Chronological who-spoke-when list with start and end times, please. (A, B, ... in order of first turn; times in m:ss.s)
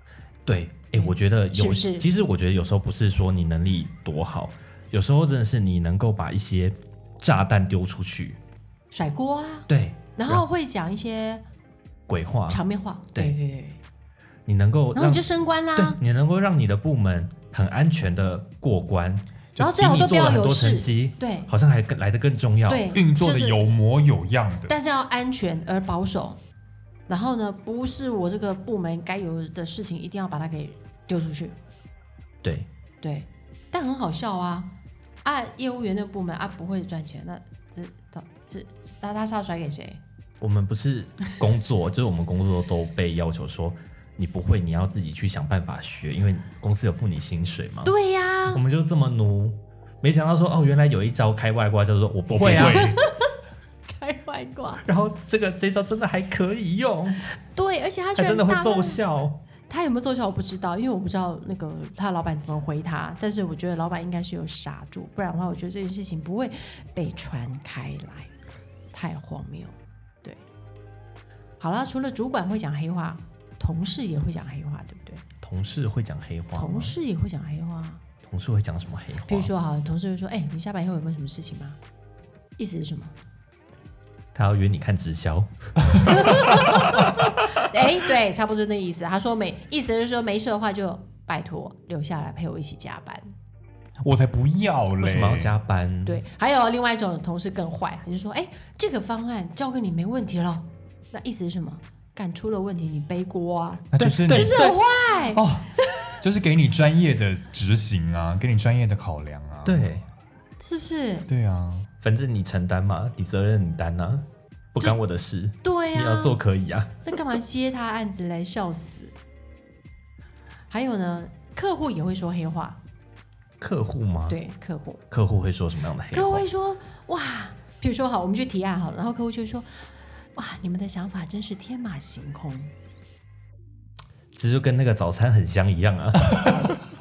0:00.4-0:08.4 A
0:00.9-0:02.1 B
0:08.9-0:11.4 B
0:09.7-0:10.4 A
0:12.1-0:12.6 A
0:12.5-0:13.8 B
0:14.4-0:15.2 A
0:14.9-0:16.0 B
0:15.8-0:22.9 A
0:19.6-0:21.5 B
0:22.7-0:23.7 B
0:22.9-0:24.7 C
0:24.7-0:26.4 B
0:27.1-0:31.6 B
0:32.4-0:32.7 A
0:33.0-0:34.7 B
0:35.2-0:40.0 B
0:40.4-0:47.9 A
0:47.8-0:48.6 B
0:48.5-0:52.9 A
0:52.4-0:53.0 C
0:52.5-0:53.2 B
0:53.9-0:54.8 B
0:54.8-0:57.2 A
0:57.5-0:59.0 B
0:58.2-0:59.4 A
0:59.7-1:08.3 B
1:08.9-1:10.4 B
1:11.6-1:15.2 B
1:15.4-1:16.9 A
1:16.6-1:18.0 B
1:18.2-1:19.5 A
1:19.3-1:21.8 B
1:22.6-1:23.1 B
1:24.3-1:26.5 A
1:26.0-1:33.3 B
1:34.0-1:35.5 C
1:35.0-1:36.2 A
1:36.0-1:46.1 B
1:43.9-1:44.7 C
1:44.0-1:44.8 A
1:45.3-1:49.8 C
1:49.6-1:50.0 A
1:50.6-1:51.3 B
1:51.3-1:51.9 C
1:52.0-1:57.0 A
1:55.6-1:56.4 B
1:57.0-1:59.1 B
2:00.7-2:02.8 B
2:03.6-2:04.4 A
2:04.3-2:05.0 B
2:05.1-2:06.4 A
2:06.1-2:09.7 B
2:10.4-2:12.7 B
2:14.3-2:16.5 A